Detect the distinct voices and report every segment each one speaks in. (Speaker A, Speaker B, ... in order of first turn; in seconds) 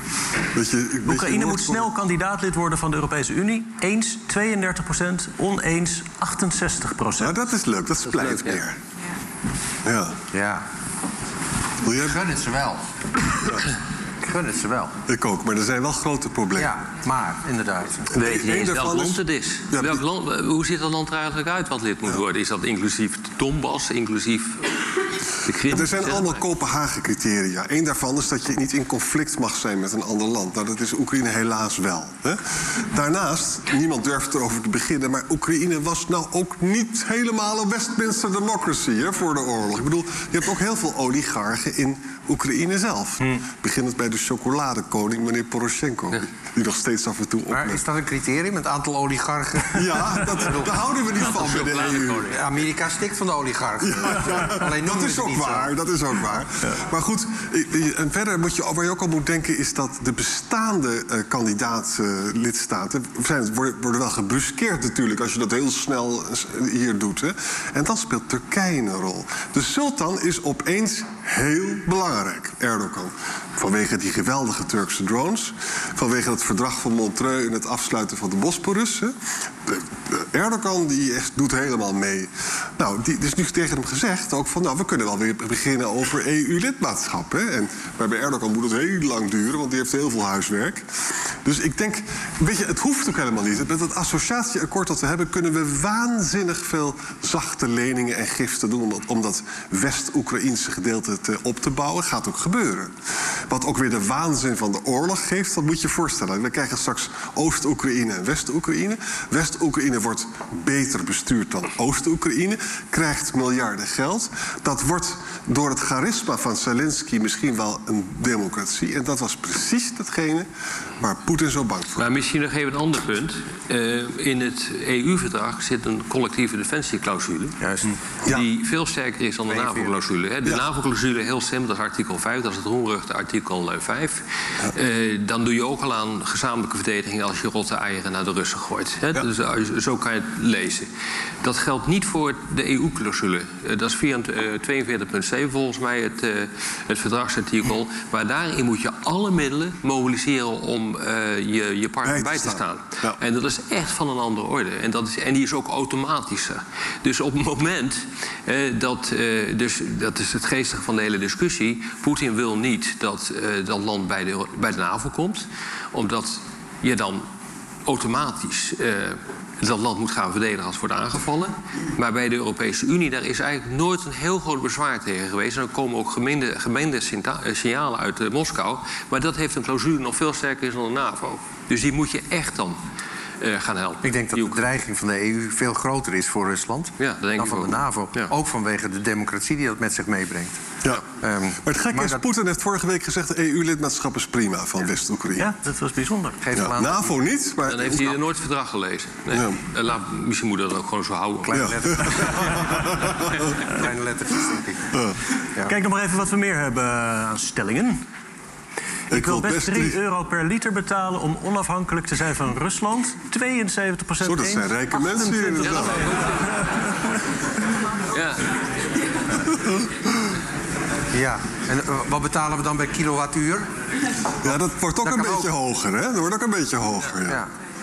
Speaker A: 0.5-1.9, 7.2-8.8, 9.8-10.2, 11.8-12.2, 15.1-16.7, 18.1-20.0, 25.7-47.8, 49.7-52.3, 53.8-79.1, 79.6-90.8, 91.4-102.9, 103.5-120.5, 121.0-122.1, 152.0-153.2, 191.6-195.5, 196.5-198.2, 199.3-199.6, 201.5-203.4, 209.1-210.0, 214.2-216.1, 219.5-219.9, 224.4-227.4
Speaker B: 1.0-7.3, 195.4-196.4, 205.7-208.0, 209.1-216.4
Speaker C: 10.3-10.7, 11.9-12.9, 14.2-15.0, 16.6-18.1, 47.5-50.8, 52.3-55.8, 127.6-127.9, 129.5-130.0, 184.0-192.2, 196.4-197.2, 201.4-202.9, 203.6-205.0, 221.1-223.7, 224.4-225.5
Speaker D: 18.1-24.9, 25.4-26.4, 51.2-52.5, 122.0-127.6, 128.3-140.9, 141.4-167.2, 167.8-182.8, 183.4-184.6, 187.0-188.3, 197.7-201.7, 215.7-216.5, 218.1-218.5